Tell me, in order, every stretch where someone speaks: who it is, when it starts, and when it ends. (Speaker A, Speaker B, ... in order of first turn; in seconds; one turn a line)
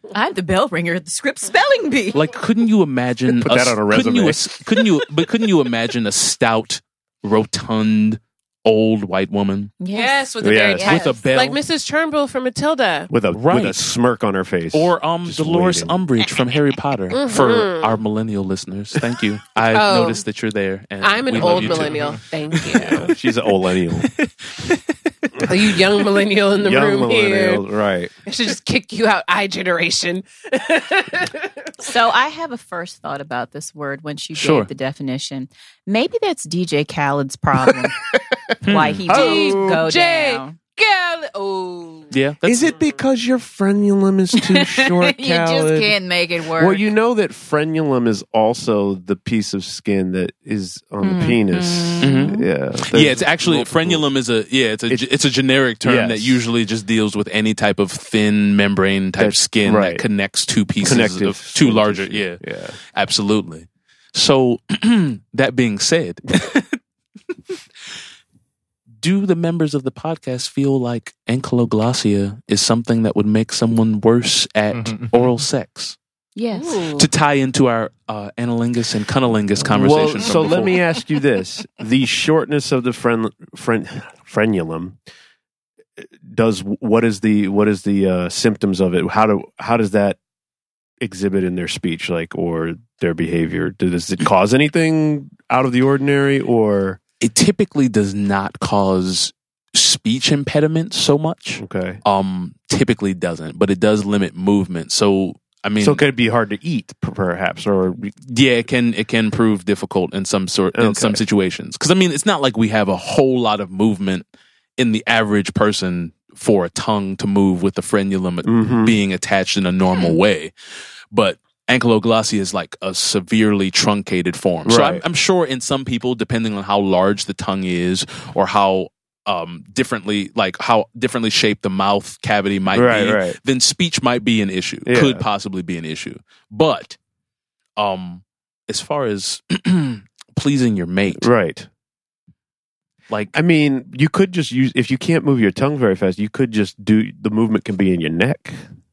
Speaker A: 0.1-2.2
Speaker B: 2.1-9.7
Speaker C: 3.3-4.5
Speaker A: 9.8-11.2
Speaker D: 9.9-13.1
Speaker C: 10.4-10.9
Speaker B: 10.8-11.6
Speaker C: 13.1-15.9
Speaker B: 13.3-13.8
Speaker B: 14.7-23.1
Speaker D: 17.1-18.0
Speaker D: 19.7-20.2
Speaker D: 21.0-23.1
Speaker C: 21.4-21.9
Speaker C: 22.8-24.1
Speaker B: 24.0-25.4
Speaker D: 25.4-27.6
Speaker C: 26.6-28.1
Speaker D: 28.3-31.7
Speaker A: 31.8-38.0
Speaker B: 34.3-34.7
Speaker B: 38.6-39.1
Speaker A: 38.6-40.6
Speaker C: 39.1-39.7
Speaker D: 39.1-42.1
Speaker B: 42.1-42.8
Speaker C: 42.4-46.0
Speaker A: 44.4-46.9
Speaker C: 46.5-54.0
Speaker A: 51.0-52.5
Speaker B: 52.0-52.3
Speaker B: 52.9-62.4
Speaker C: 55.8-56.4
Speaker C: 59.2-60.0
Speaker C: 60.8-62.8
Speaker B: 62.9-66.8
Speaker B: 69.0-76.0
Speaker A: 76.3-77.0
Speaker D: 76.5-77.0
Speaker B: 76.9-80.8
Speaker C: 79.7-85.0
Speaker C: 86.0-90.2
Speaker C: 91.0-97.0
Speaker B: 97.2-106.0
Speaker C: 101.6-102.0
Speaker C: 105.8-108.1
Speaker B: 108.3-114.2
Speaker C: 110.8-111.2
Speaker B: 114.8-120.5
Speaker C: 118.4-119.0
Speaker B: 121.1-137.0
Speaker C: 124.6-125.0
Speaker C: 132.7-133.4
Speaker C: 134.8-135.2
Speaker B: 137.8-141.3
Speaker C: 141.2-141.7
Speaker C: 143.3-148.6